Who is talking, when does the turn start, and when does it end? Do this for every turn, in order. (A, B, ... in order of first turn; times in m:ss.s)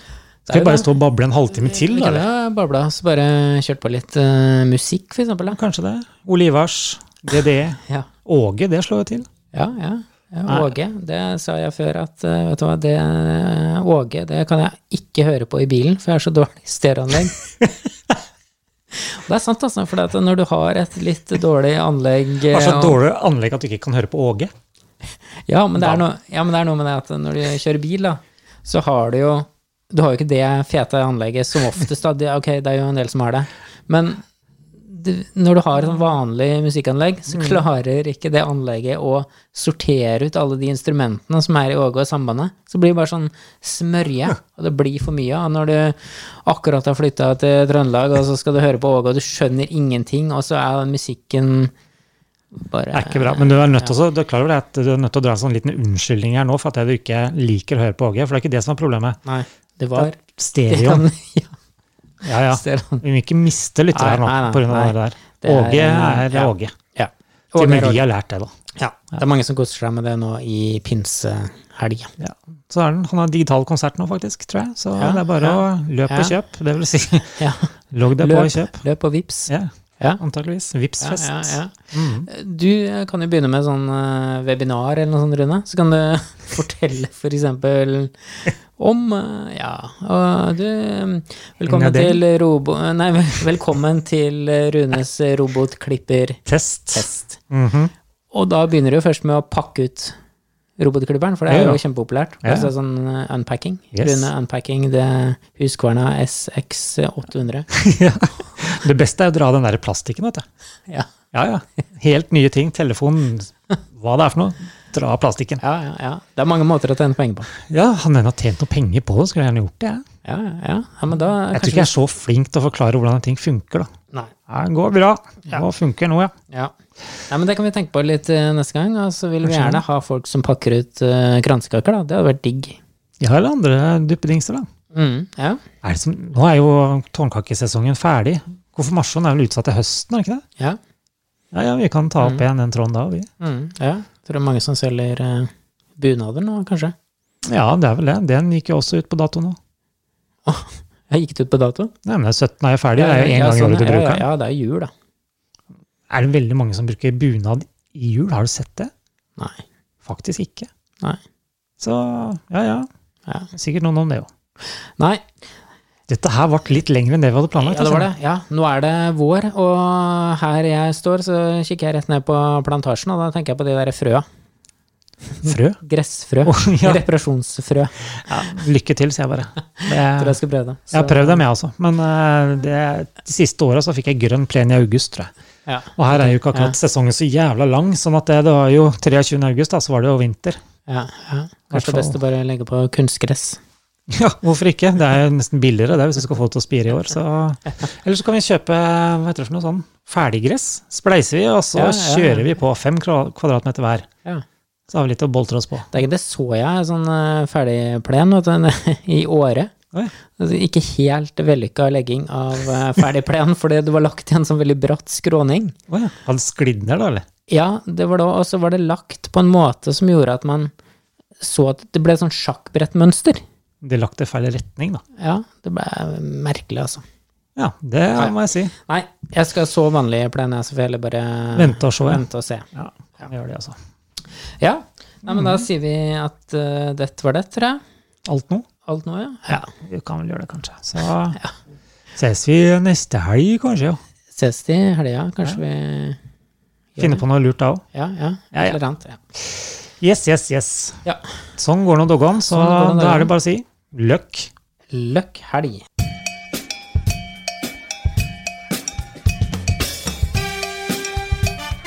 0:00.5-0:00.9 A
0:00.5-0:02.3 B
0:01.5-0:05.6 A
0:05.5-0:09.3 B
0:09.5-0:17.4 A
0:18.9-0:23.0 A
0:22.5-0:24.5 B
0:25.5-0:34.2 A
0:34.8-0:51.7 A
0:37.3-0:37.6 B
0:52.5-0:53.9 A
0:52.9-0:59.2 B
0:59.2-1:00.2 A
1:00.0-1:01.0 B
1:00.7-1:01.5 A
1:02.2-1:06.7 B
1:02.5-1:03.0 A
1:03.9-1:08.0 A
1:07.6-1:08.5 B
1:08.8-1:12.1 A
1:12.2-1:17.4 B
1:15.0-1:16.3 A
1:17.4-1:20.2 A
1:17.9-1:18.8 B
1:19.5-1:22.3 B
1:21.0-1:21.8 A
1:22.3-1:36.4 A
1:31.6-1:32.2 B
1:36.5-1:37.9 B
1:36.9-1:37.4 A
1:38.3-1:40.2 A
1:40.8-1:47.7 A
1:41.5-1:41.8 B
1:42.4-1:42.7 B
1:43.9-1:44.3 B
1:47.7-1:50.5 B
1:51.3-1:55.6 B
1:55.6-1:57.5 A
1:57.7-2:00.0 B
2:00.2-2:01.9 A
2:01.5-2:03.9 B
2:04.5-2:06.3 B
2:07.3-2:12.8 A
2:09.4-2:09.8 B
2:13.2-2:14.7 B
2:14.9-2:15.6 A
2:15.8-2:20.4 B
2:21.5-2:23.3 B
2:23.4-2:27.0 A
2:27.5-2:29.6 B
2:30.5-2:31.9 A
2:32.0-2:34.3 B
2:33.0-2:34.9 A
2:36.1-2:38.9 B
2:39.4-2:39.6 A
2:40.0-2:40.7 B
2:41.8-2:42.9 B
2:43.5-2:44.3 B
2:44.6-2:45.3 A
2:46.1-2:48.1 B
2:47.6-2:54.3 A
2:55.4-2:55.8 B
2:55.4-2:57.9 A
2:56.4-2:57.0 B
2:58.1-3:00.4 B
3:00.1-3:01.4 A
3:00.9-3:05.3 B
3:05.7-3:06.8 A
3:06.0-3:10.6 B
3:10.9-3:13.6 A
3:11.7-3:12.2 B
3:14.1-3:24.1 B
3:21.8-3:22.5 A
3:24.9-3:25.9 B
3:25.9-3:29.7 A
3:30.3-3:35.8 A
3:35.9-3:37.3 B
3:37.5-3:40.7 A
3:41.4-3:43.4 A
3:43.8-3:45.0 B
3:45.2-3:47.0 A
3:47.6-3:48.7 B
3:48.2-3:52.7 A
3:51.5-3:52.2 B
3:52.7-3:53.8 B
3:54.6-3:57.8 A
3:55.3-3:55.6 B
3:58.3-3:58.7 B
3:58.8-3:59.7 A
3:59.5-4:01.4 B
4:02.2-4:04.0 B
4:04.3-4:06.2 A
4:07.0-4:07.2 A
4:07.0-4:07.8 B
4:07.9-4:09.2 A
4:09.4-4:11.0 B
4:11.6-4:14.5 B
4:12.5-4:13.3 A
4:14.9-4:15.9 A